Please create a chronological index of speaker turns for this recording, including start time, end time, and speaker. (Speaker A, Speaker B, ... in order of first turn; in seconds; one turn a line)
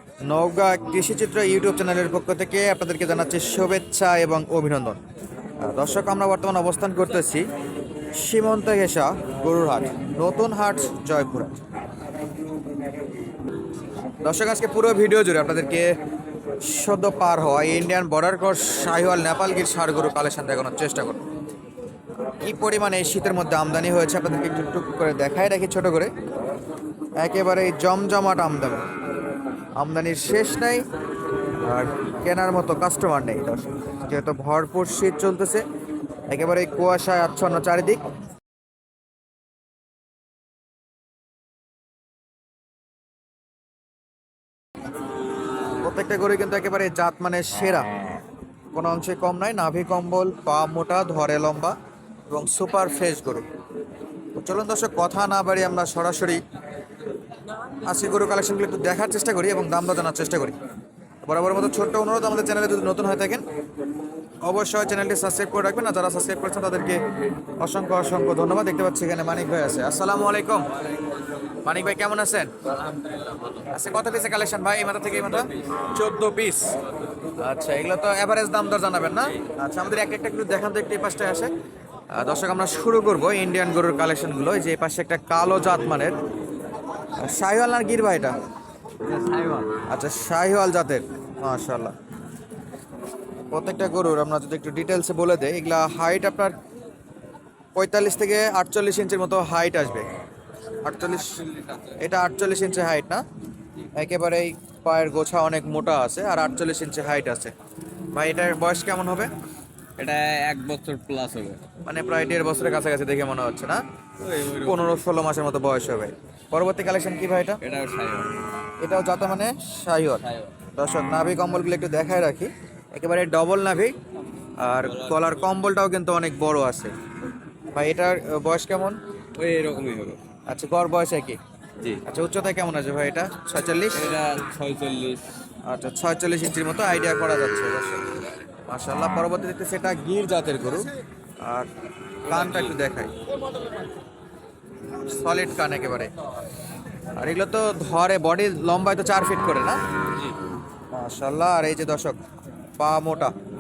Speaker A: 0.3-5.0
Speaker A: 5.6-7.5
Speaker A: 8.2-11.6
Speaker A: 14.2-15.9
Speaker A: 16.6-21.2
Speaker A: 22.4-26.1
Speaker A: 27.2-28.9
Speaker A: 29.8-30.9
Speaker A: 31.6-35.6
Speaker A: 36.3-38.0
Speaker A: 45.8-47.9
Speaker A: 48.7-51.8
Speaker A: 52.3-53.5
Speaker A: 54.4-56.4
Speaker A: 57.9-60.6
Speaker A: 61.2-63.4
Speaker A: 64.4-67.0
Speaker A: 67.6-70.7
Speaker A: 71.6-72.5
Speaker A: 73.7-76.8
Speaker B: 75.3-75.6
Speaker A: 77.4-81.5
Speaker A: 82.1-86.2
Speaker A: 87.2-88.3
Speaker B: 89.0-89.8
Speaker A: 89.9-91.9
Speaker A: 93.5-96.6
Speaker A: 97.8-100.1
Speaker A: 100.8-101.4
Speaker B: 101.0-102.0
Speaker A: 102.0-103.2
Speaker A: 104.0-107.5
Speaker A: 108.1-109.3
Speaker B: 110.0-111.6
Speaker A: 111.8-113.8
Speaker B: 114.2-115.0
Speaker A: 114.6-117.6
Speaker B: 117.6-118.3
Speaker A: 118.8-120.2
Speaker B: 120.2-120.5
Speaker A: 120.8-124.0
Speaker A: 124.6-126.9
Speaker B: 124.8-125.4
Speaker A: 127.7-129.0
Speaker B: 129.3-130.2
Speaker A: 130.5-131.4
Speaker A: 132.0-134.0
Speaker B: 133.9-135.2
Speaker A: 135.7-138.0
Speaker A: 138.7-140.9
Speaker A: 141.4-141.7
Speaker A: 142.3-143.1
Speaker B: 142.3-142.8
Speaker A: 145.1-146.1
Speaker A: 147.2-149.8
Speaker B: 150.1-150.4
Speaker A: 150.9-152.2
Speaker A: 152.8-153.3